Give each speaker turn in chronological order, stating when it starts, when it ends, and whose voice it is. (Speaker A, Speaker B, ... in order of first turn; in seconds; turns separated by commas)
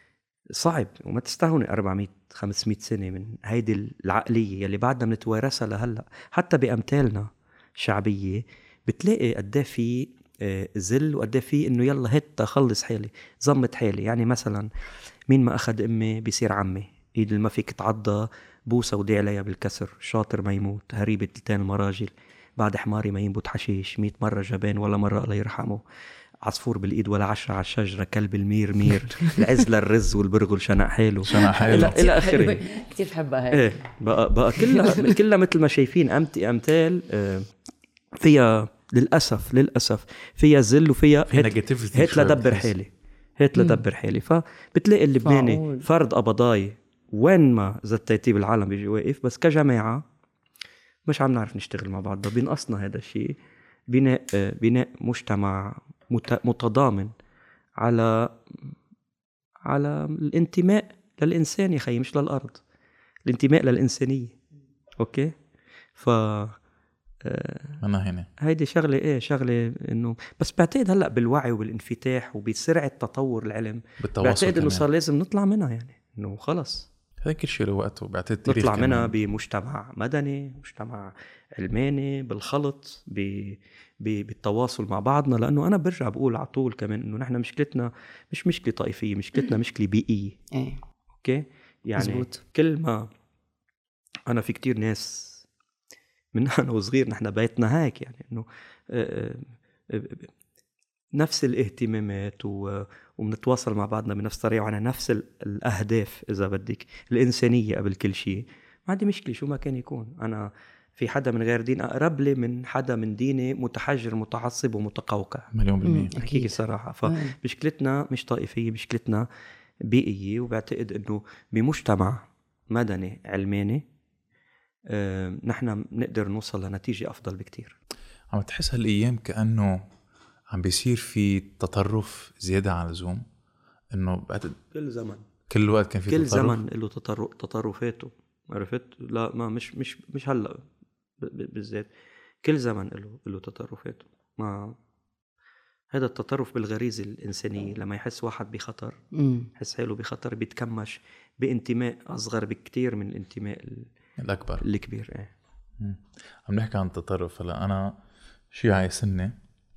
Speaker A: 0.5-14.7, Speaker A: 15.3-25.8, Speaker A: 26.4-32.6, Speaker B: 31.2-31.9, Speaker C: 31.7-33.7, Speaker A: 33.5-37.5, Speaker C: 34.6-35.1, Speaker A: 38.2-50.0, Speaker B: 41.3-42.7, Speaker C: 43.5-43.8, Speaker C: 45.2-45.9, Speaker A: 51.0-53.4, Speaker A: 53.9-57.1, Speaker A: 57.8-58.7, Speaker A: 59.6-62.6, Speaker A: 63.2-64.3, Speaker A: 65.0-65.3, Speaker A: 66.0-66.6, Speaker A: 67.2-67.8, Speaker B: 67.8-68.3, Speaker A: 68.4-76.9, Speaker B: 74.0-74.8, Speaker B: 77.2-79.2, Speaker A: 78.5-90.4, Speaker C: 90.5-90.8, Speaker A: 91.2-93.1, Speaker C: 92.0-92.4, Speaker A: 94.3-95.4, Speaker A: 96.3-100.3, Speaker A: 101.1-115.5, Speaker B: 115.5-116.1, Speaker C: 115.8-117.3, Speaker A: 116.2-119.3, Speaker A: 119.9-123.8, Speaker A: 124.9-127.8, Speaker B: 128.3-129.8, Speaker B: 130.5-133.2, Speaker B: 133.9-134.6, Speaker A: 134.7-135.2, Speaker B: 135.5-136.6, Speaker A: 136.1-140.6, Speaker A: 141.2-141.9, Speaker A: 142.4-144.8, Speaker A: 145.9-148.9, Speaker C: 149.1-149.5, Speaker A: 149.6-153.9, Speaker B: 154.2-154.7, Speaker A: 154.6-155.3, Speaker B: 155.8-158.0, Speaker B: 158.5-159.4